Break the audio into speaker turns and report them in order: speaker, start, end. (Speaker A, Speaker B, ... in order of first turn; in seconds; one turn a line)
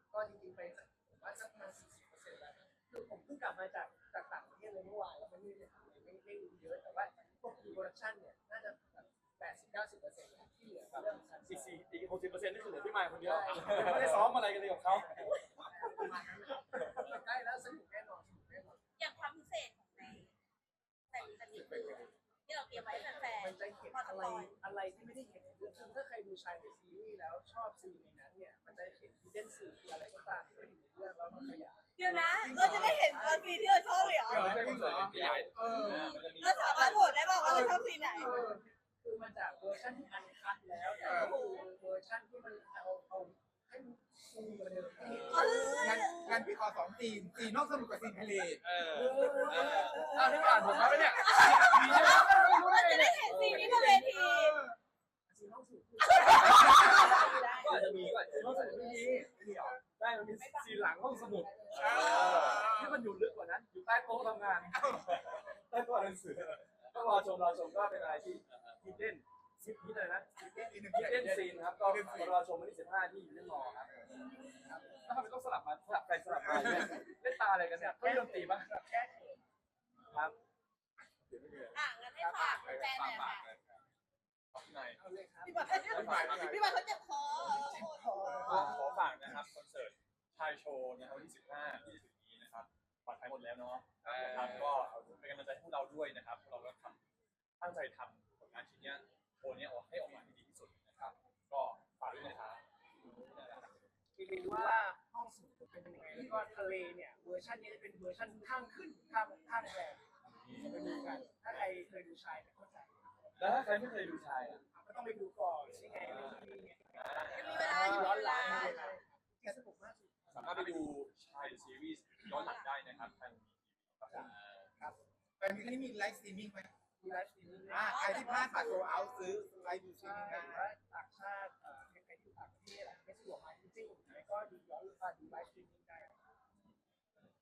Speaker A: 0.1-11.7
Speaker B: 11.4-16.1
Speaker A: 13.2-18.8
Speaker C: 13.7-14.1
Speaker D: 19.0-20.3
Speaker D: 21.1-24.5
Speaker A: 23.2-33.7
Speaker D: 32.0-34.5
Speaker E: 32.5-32.9
Speaker C: 32.6-32.9
Speaker C: 34.0-37.4
Speaker E: 34.2-36.2
Speaker B: 34.4-35.5
Speaker F: 35.1-35.5
Speaker D: 36.2-38.4
Speaker E: 37.4-38.6
Speaker A: 37.4-45.8
Speaker E: 41.1-41.4
Speaker D: 41.1-41.6
Speaker F: 45.1-45.8
Speaker D: 45.3-46.5
Speaker E: 45.6-48.7
Speaker F: 48.6-52.7
Speaker B: 48.8-54.0
Speaker D: 49.8-54.7
Speaker A: 50.1-54.5
Speaker E: 54.3-54.7
Speaker A: 55.3-59.4
Speaker D: 56.0-58.1
Speaker B: 56.5-74.1
Speaker E: 59.3-59.8
Speaker A: 60.4-61.9
Speaker C: 61.6-62.8
Speaker E: 61.7-63.1
Speaker D: 61.9-62.3
Speaker E: 64.7-65.2
Speaker C: 65.1-65.4
Speaker F: 67.8-69.0
Speaker E: 70.4-72.4
Speaker A: 74.7-75.0
Speaker B: 75.0-78.7
Speaker A: 77.7-79.4
Speaker B: 80.1-80.4
Speaker B: 81.3-81.8
Speaker D: 81.7-83.5
Speaker F: 82.3-83.8
Speaker C: 84.5-85.0
Speaker A: 85.0-85.8
Speaker D: 85.4-89.0
Speaker E: 85.8-86.8
Speaker F: 86.2-86.6
Speaker E: 87.5-88.6
Speaker B: 88.5-88.9
Speaker C: 88.5-97.0
Speaker F: 94.0-94.9
Speaker C: 97.6-102.6
Speaker B: 103.3-103.6
Speaker A: 104.2-113.9
Speaker C: 110.3-110.8
Speaker C: 113.4-114.6
Speaker A: 114.7-120.5
Speaker C: 116.0-116.4
Speaker C: 116.9-118.8
Speaker D: 117.3-118.9
Speaker B: 117.6-118.3
Speaker C: 120.3-124.3
Speaker D: 122.2-122.7
Speaker A: 124.1-125.0
Speaker F: 124.2-124.7
Speaker E: 125.4-126.7
Speaker A: 127.0-128.4
Speaker E: 127.7-130.7
Speaker D: 127.8-129.4
Speaker A: 130.0-136.2